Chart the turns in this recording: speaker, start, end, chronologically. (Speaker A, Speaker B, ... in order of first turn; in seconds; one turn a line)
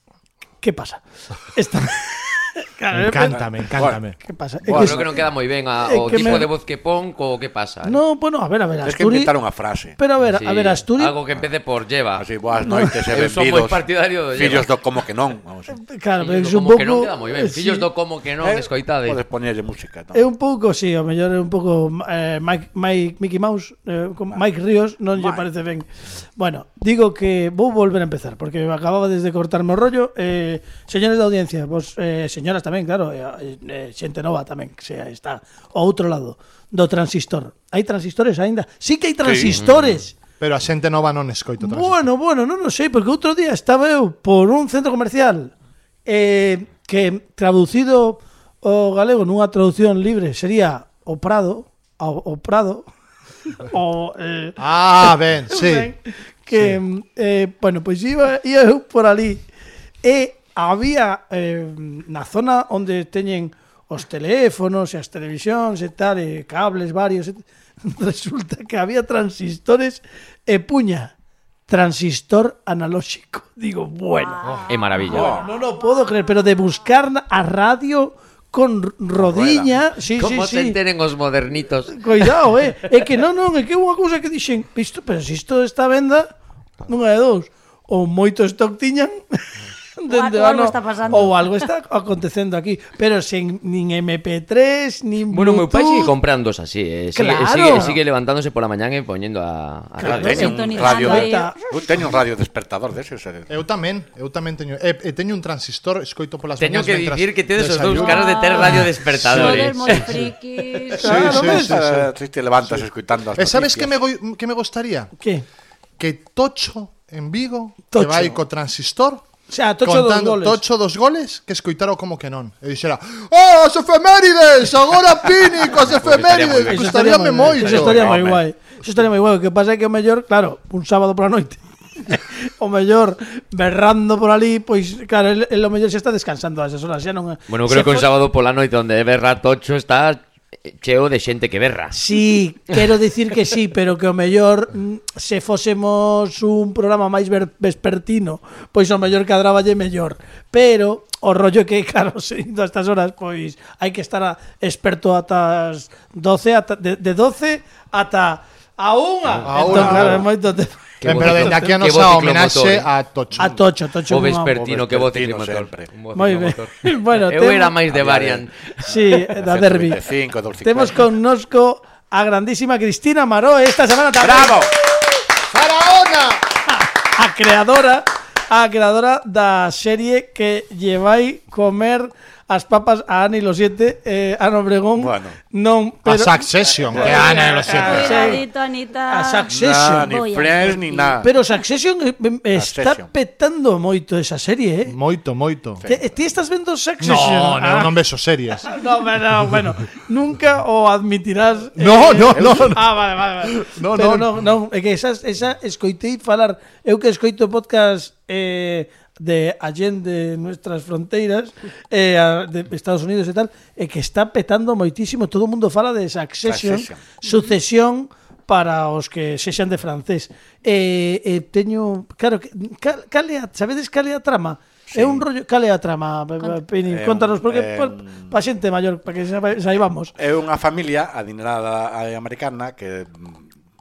Speaker A: 0.6-1.0
Speaker A: 1.5-3.5
Speaker B: 2.9-4.2
Speaker A: 4.2-6.5
Speaker C: 4.7-5.2
Speaker D: 4.7-8.0
Speaker A: 7.8-9.3
Speaker C: 8.8-10.0
Speaker A: 10.0-11.2
Speaker D: 10.3-12.3
Speaker C: 12.2-15.8
Speaker A: 12.6-12.9
Speaker D: 13.1-14.8
Speaker A: 15.7-17.9
Speaker D: 16.2-19.2
Speaker C: 18.4-20.2
Speaker A: 20.1-40.1
Speaker C: 25.1-25.4
Speaker C: 39.2-39.7
Speaker D: 39.6-40.0
Speaker B: 40.4-42.0
Speaker A: 41.6-45.5
Speaker A: 46.1-52.9
Speaker A: 53.5-59.5
Speaker B: 54.6-55.9
Speaker A: 60.0-71.1
Speaker A: 71.7-74.5
Speaker E: 74.2-75.4
Speaker D: 74.7-75.3
Speaker C: 75.1-75.5
Speaker A: 75.1-80.8
Speaker C: 79.2-79.7
Speaker D: 80.2-82.3
Speaker A: 81.9-86.3
Speaker A: 86.9-89.4
Speaker A: 90.0-96.1
Speaker E: 90.1-91.7
Speaker D: 95.3-100.6
Speaker A: 97.2-98.0
Speaker A: 100.0-101.5
Speaker C: 100.0-103.5
Speaker E: 100.3-101.7
Speaker B: 103.5-110.3
Speaker D: 106.6-110.3
Speaker E: 107.9-111.3
Speaker A: 111.0-111.7
Speaker B: 111.0-112.1
Speaker C: 111.2-113.9
Speaker B: 112.6-115.1
Speaker A: 115.2-115.5
Speaker B: 116.0-119.2
Speaker A: 117.9-118.4
Speaker A: 119.5-120.6
Speaker B: 119.8-128.1
Speaker D: 125.7-128.4
Speaker A: 126.7-138.1
Speaker C: 127.7-128.4
Speaker D: 137.5-142.0
Speaker A: 141.9-161.8
Speaker B: 159.4-160.3
Speaker D: 161.0-162.9
Speaker B: 161.0-163.6
Speaker A: 163.4-164.8
Speaker D: 164.1-168.5
Speaker C: 164.7-165.9
Speaker A: 166.1-167.8
Speaker C: 167.9-171.1
Speaker A: 168.8-170.0
Speaker A: 170.6-174.7
Speaker C: 174.2-174.7
Speaker B: 175.5-176.4
Speaker A: 176.8-186.4
Speaker C: 185.0-185.4
Speaker B: 186.1-188.2
Speaker C: 186.8-187.3
Speaker A: 187.0-188.4
Speaker E: 187.0-191.2
Speaker A: 189.1-190.1
Speaker C: 189.5-191.3
Speaker A: 191.2-194.9
Speaker C: 192.5-193.1
Speaker B: 194.9-195.8
Speaker C: 195.8-196.1
Speaker A: 195.8-197.9
Speaker B: 197.0-198.7
Speaker A: 198.5-230.1
Speaker B: 201.8-204.3
Speaker C: 216.4-217.2
Speaker C: 224.9-225.2
Speaker C: 226.9-228.4
Speaker C: 230.2-233.5